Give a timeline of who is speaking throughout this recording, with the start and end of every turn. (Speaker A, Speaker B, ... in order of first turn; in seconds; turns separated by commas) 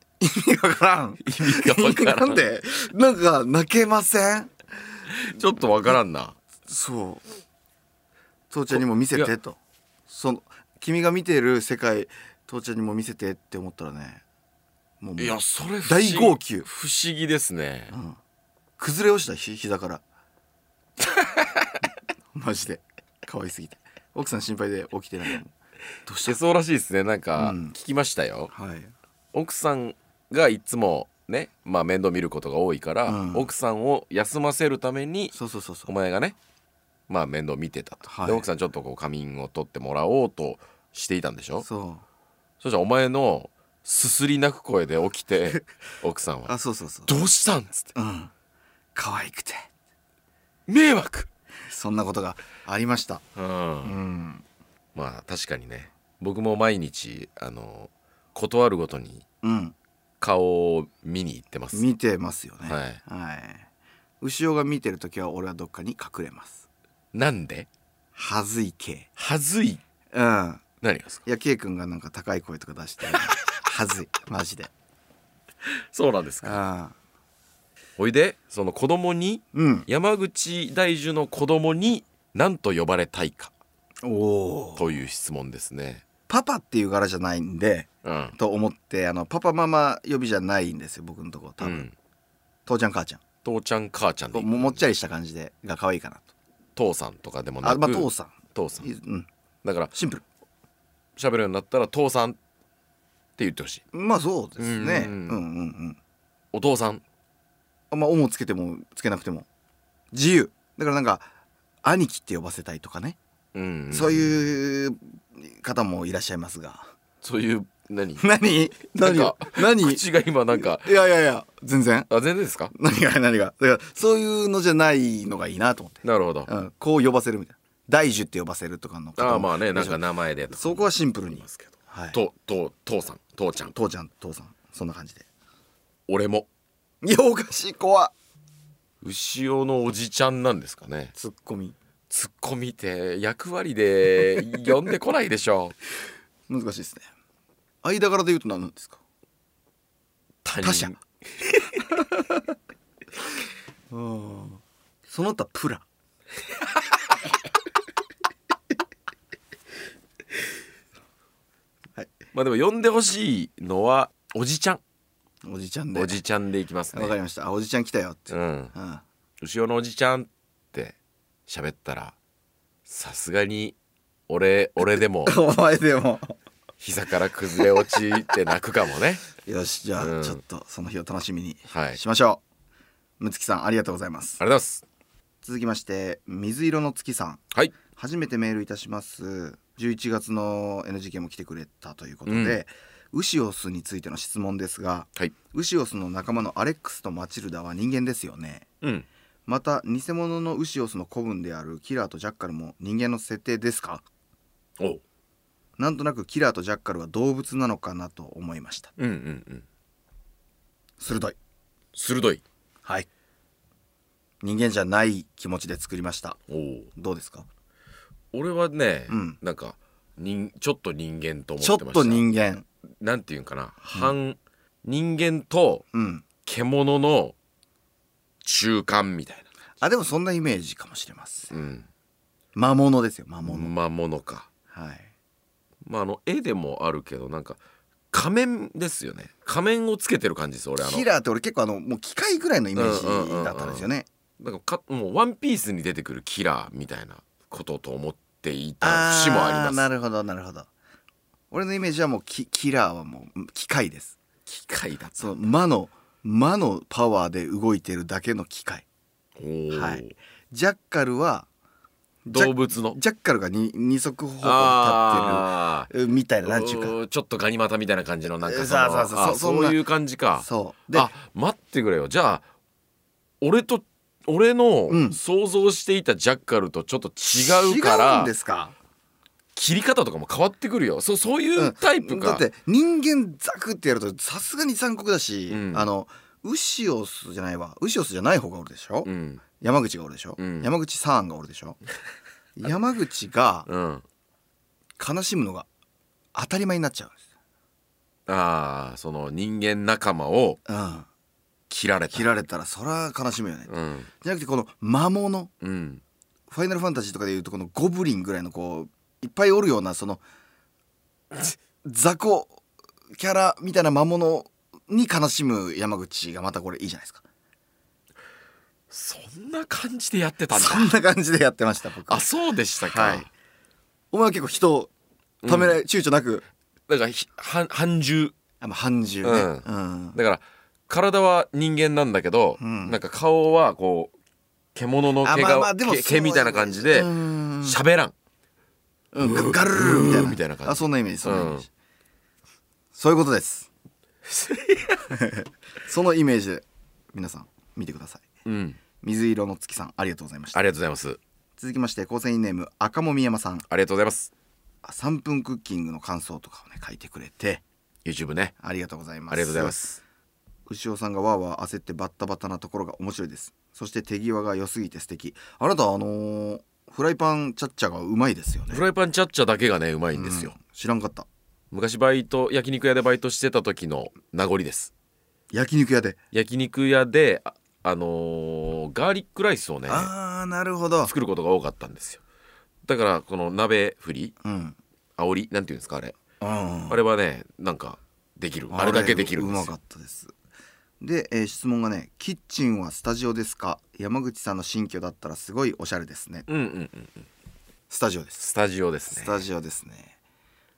Speaker A: 0.2-4.5, Speaker B: 1.2-2.4, Speaker B: 5.1-6.4, Speaker A: 6.7-7.2, Speaker A: 8.5-14.2, Speaker B: 8.7-9.3, Speaker A: 15.0-16.7, Speaker B: 15.2-17.9, Speaker A: 17.9-18.2, Speaker A: 18.8-20.0, Speaker B: 21.1-21.8, Speaker A: 22.3-25.5, Speaker A: 26.1-26.4, Speaker B: 26.2-28.5, Speaker A: 27.4-27.8, Speaker A: 28.5-28.9, Speaker B: 29.3-35.3, Speaker A: 33.1-33.5, Speaker A: 35.3-35.9, Speaker B: 35.9-36.4, Speaker B: 37.1-41.7, Speaker A: 38.1-38.5, Speaker A: 41.6-42.0, Speaker B: 42.6-46.5, Speaker A: 46.5-47.2, Speaker B: 47.1-47.9, Speaker A: 48.0-48.3, Speaker A: 49.0-49.7, Speaker B: 50.7-51.3, Speaker A: 51.7-53.2, Speaker B: 53.4-54.0, Speaker A: 53.8-54.4, Speaker B: 55.0-59.2, Speaker A: 59.4-59.8, Speaker B: 60.2-61.8, Speaker A: 61.7-63.7, Speaker B: 62.6-63.0, Speaker A: 64.2-66.7, Speaker B: 67.1-67.7, Speaker A: 68.2-69.1, Speaker B: 69.2-69.8, Speaker A: 70.1-70.6, Speaker B: 70.8-71.2, Speaker A: 71.2-74.7, Speaker B: 75.9-76.6, Speaker A: 76.4-77.0, Speaker B: 78.0-83.5, Speaker A: 79.5-79.9, Speaker A: 84.0-84.9, Speaker B: 84.8-86.0, Speaker A: 86.3-91.9, Speaker B: 88.0-88.3, Speaker B: 91.6-91.9, Speaker A: 92.7-93.2, Speaker B: 93.4-94.8, Speaker A: 94.3-96.3, Speaker B: 96.8-98.9, Speaker A: 97.6-99.3, Speaker B: 99.6-99.9, Speaker A: 99.9-100.2, Speaker B: 101.2-102.4, Speaker B: 103.4-103.8, Speaker A: 103.9-106.0, Speaker B: 104.6-105.4, Speaker B: 106.5-107.0, Speaker A: 107.9-109.5, Speaker A: 110.1-111.3, Speaker A: 111.8-113.2, Speaker B: 113.5-114.4, Speaker A: 113.9-116.9, Speaker B: 117.2-118.2, Speaker A: 118.2-122.1, Speaker B: 119.0-120.9, Speaker B: 122.1-122.7, Speaker A: 122.7-132.2, Speaker B: 126.0-126.5, Speaker B: 129.2-133.7, Speaker A: 133.7-135.3, Speaker B: 136.1-136.5, Speaker A: 137.0-138.1, Speaker B: 139.0-141.1, Speaker A: 141.2-141.8, Speaker B: 142.1-145.8, Speaker A: 146.5-147.1, Speaker A: 147.8-149.0, Speaker B: 150.4-151.9, Speaker A: 150.6-150.9, Speaker A: 153.9-155.8, Speaker B: 162.3-164.8, Speaker A: 165.4-166.2, Speaker B: 165.9-167.1, Speaker A: 166.9-169.0, Speaker B: 168.3-168.7, Speaker B: 169.4-171.0, Speaker B: 171.5-172.2, Speaker B: 172.9-173.8, Speaker B: 174.3-175.4, Speaker A: 175.2-176.4, Speaker B: 176.8-179.2, Speaker A: 179.4-182.4, Speaker B: 180.0-180.4, Speaker B: 181.7-182.0, Speaker A: 183.2-184.4, Speaker B: 184.4-184.8, Speaker A: 185.4-198.7, Speaker B: 192.3-192.6, Speaker B: 198.8-199.1, Speaker A: 199.5-204.1, Speaker A: 205.8-208.9, Speaker B: 209.0-209.7, Speaker A: 211.0-211.4, Speaker B: 211.9-212.4, Speaker A: 214.4-216.4, Speaker B: 216.5-216.9, Speaker A: 216.9-217.5, Speaker B: 218.3-222.3, Speaker A: 219.1-219.4, Speaker A: 221.6-222.7, Speaker B: 223.0-225.8, Speaker A: 225.9-226.2, Speaker B: 226.4-227.3, Speaker B: 228.4-229.5, Speaker A: 229.8-231.5, Speaker B: 231.5-231.9, Speaker A: 232.6-233.7, Speaker B: 233.4-234.5, Speaker A: 234.7-235.1, Speaker B: 235.8-237.6, Speaker B: 238.1-241.1, Speaker A: 240.8-244.1, Speaker B: 242.8-243.9, Speaker B: 244.4-249.8, Speaker A: 248.8-250.7, Speaker A: 251.5-254.2, Speaker B: 254.5-255.4, Speaker A: 255.2-258.9, Speaker B: 259.4-260.1, Speaker A: 259.7-261.5, Speaker A: 262.3-267.0, Speaker B: 262.3-263.0, Speaker B: 264.4-265.9, Speaker B: 266.4-272.4, Speaker A: 268.4-269.8, Speaker A: 270.4-271.1, Speaker B: 273.4-278.3, Speaker A: 274.9-275.2, Speaker A: 277.4-278.8, Speaker B: 279.6-282.4, Speaker A: 281.6-291.8, Speaker B: 285.5-285.9, Speaker B: 289.1-289.4, Speaker B: 290.4-290.7, Speaker A: 292.6-293.7, Speaker B: 293.7-294.0, Speaker A: 295.0-295.7, Speaker A: 296.4-297.2, Speaker B: 298.3-300.6, Speaker A: 300.7-301.1, Speaker B: 301.7-302.3, Speaker A: 302.1-305.5, Speaker B: 303.7-304.1, Speaker B: 305.6-306.0, Speaker A: 306.5-310.2, Speaker A: 311.8-312.6, Speaker A: 313.1-317.2, Speaker B: 318.9-320.9, Speaker A: 320.5-322.2, Speaker B: 322.1-323.3, Speaker A: 322.8-323.3, Speaker A: 324.1-324.9, Speaker B: 325.4-325.8, Speaker A: 325.4-326.4, Speaker B: 326.9-328.4, Speaker A: 328.6-330.2, Speaker B: 329.2-334.1, Speaker A: 332.6-333.0, Speaker B: 334.8-338.1, Speaker A: 335.2-337.8, Speaker A: 339.1-341.7, Speaker B: 339.2-341.7, Speaker A: 342.9-343.7, Speaker B: 344.2-345.1, Speaker A: 345.1-348.2, Speaker B: 348.4-348.8, Speaker A: 349.0-350.6, Speaker B: 350.5-351.2, Speaker A: 351.6-353.6, Speaker B: 353.7-354.3, Speaker A: 354.8-357.6, Speaker B: 358.1-358.5, Speaker A: 358.6-359.8, Speaker B: 359.3-360.0, Speaker A: 360.7-368.8, Speaker B: 368.7-370.5, Speaker A: 370.1-371.3, Speaker B: 371.7-374.9, Speaker A: 375.5-376.2, Speaker B: 376.3-380.1, Speaker A: 379.9-381.1, Speaker B: 381.0-382.2, Speaker B: 382.9-384.4, Speaker A: 384.4-384.8, Speaker B: 385.2-386.2, Speaker A: 386.4-387.0, Speaker B: 386.9-389.7, Speaker A: 388.7-390.3, Speaker A: 391.0-396.5, Speaker B: 396.5-397.3, Speaker A: 397.9-398.4, Speaker B: 398.4-399.4, Speaker A: 399.1-400.1